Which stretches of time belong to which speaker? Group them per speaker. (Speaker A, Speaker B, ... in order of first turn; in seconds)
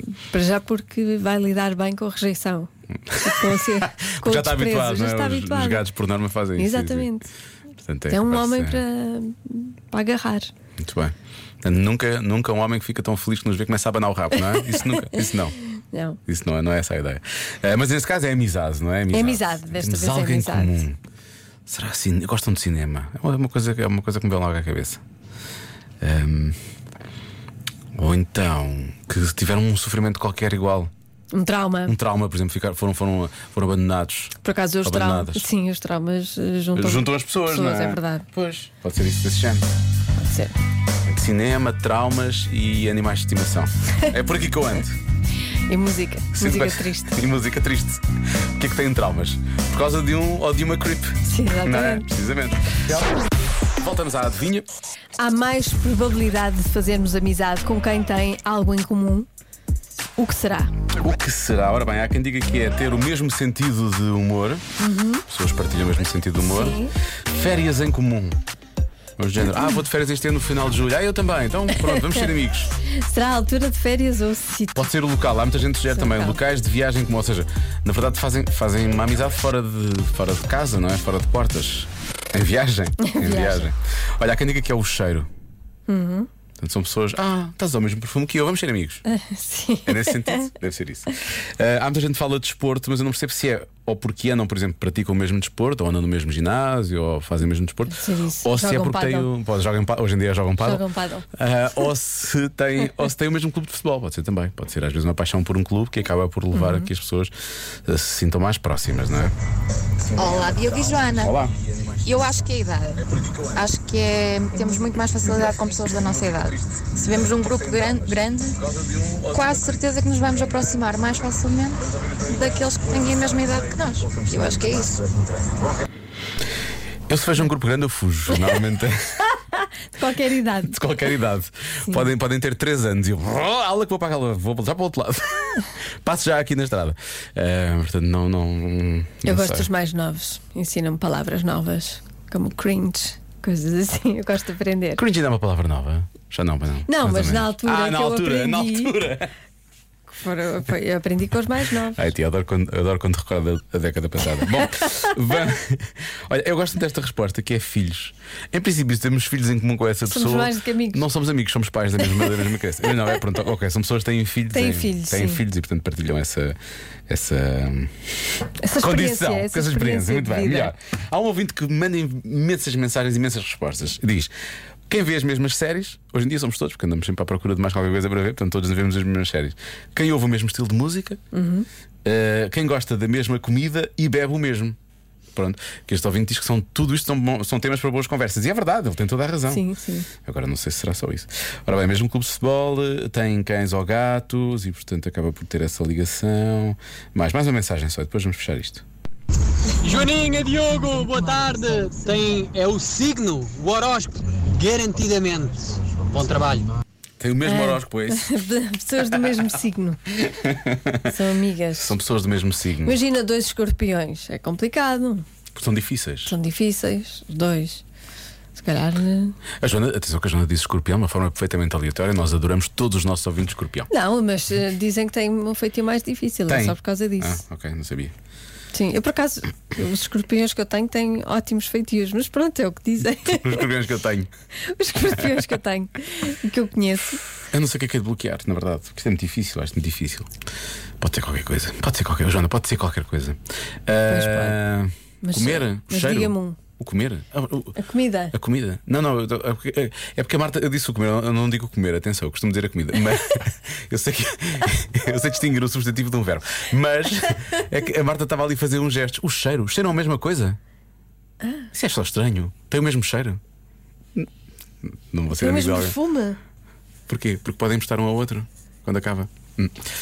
Speaker A: 0.2-2.7, 3.2-5.8, 6.5-7.3, 8.1-10.5, 14.5-15.3, 15.9-16.2, 19.1-20.8, 31.3-31.9, 34.4-38.3, 40.2-40.5, 45.7-47.1, 51.2-52.1, 55.2-59.3, 60.2-60.7, 64.8-65.2, 66.4-66.9, 71.7-72.3, 72.8-74.9, 75.9-76.4, 83.0-83.7, 85.9-86.3, 89.1-90.5, 98.0-99.3, 100.6-101.2, 106.5-106.9, 129.9-130.7, 139.2-145.0, 146.9-148.9, 150.1-152.0, 160.1-161.0, 164.5-165.4, 168.6-170.7, 181.3-181.7, 189.5-190.1, 207.4-210.0, 211.0-211.9, 212.8-215.2, 216.2-217.8, 218.5-219.4, 223.9-227.4, 228.7-233.7, 234.7-237.2, 244.1-244.6, 245.2-246.6, 247.8-248.3, 265.3-266.4
Speaker B: 3.1-7.1, 7.8-8.8, 10.8-15.5, 16.3-21.0, 21.7-25.0, 26.0-26.6, 27.9-30.9, 31.9-34.3, 34.8-35.5, 36.8-39.7, 41.1-45.0, 46.3-48.0, 48.6-53.2, 53.8-54.7, 61.0-64.6, 65.3-68.4, 69.2-72.7, 74.8-85.3, 86.6-89.0, 89.9-100.8, 101.4-107.3, 107.9-109.3, 110.2-111.5, 115.3-115.5, 117.4-117.9, 118.8-119.5, 127.1-129.0, 130.7-135.5, 136.0-139.7, 145.0-149.3, 151.9-166.6, 167.1-167.9, 168.8-174.3, 174.9-181.2, 182.0-184.8, 185.3-189.7, 190.2-198.8, 207.2-208.4, 210.3-210.9, 211.7-213.0, 215.5-216.3, 219.6-223.9, 226.5-228.1, 233.2-234.3, 235.1-235.4, 237.5-240.3, 241.0-247.7, 248.3-260.6, 261.7-263.4, 265.1-265.9, 267.1-269.8
Speaker C: 110.2-111.3, 112.0-113.0, 113.5-118.6, 119.2-125.1
Speaker D: 199.8-206.7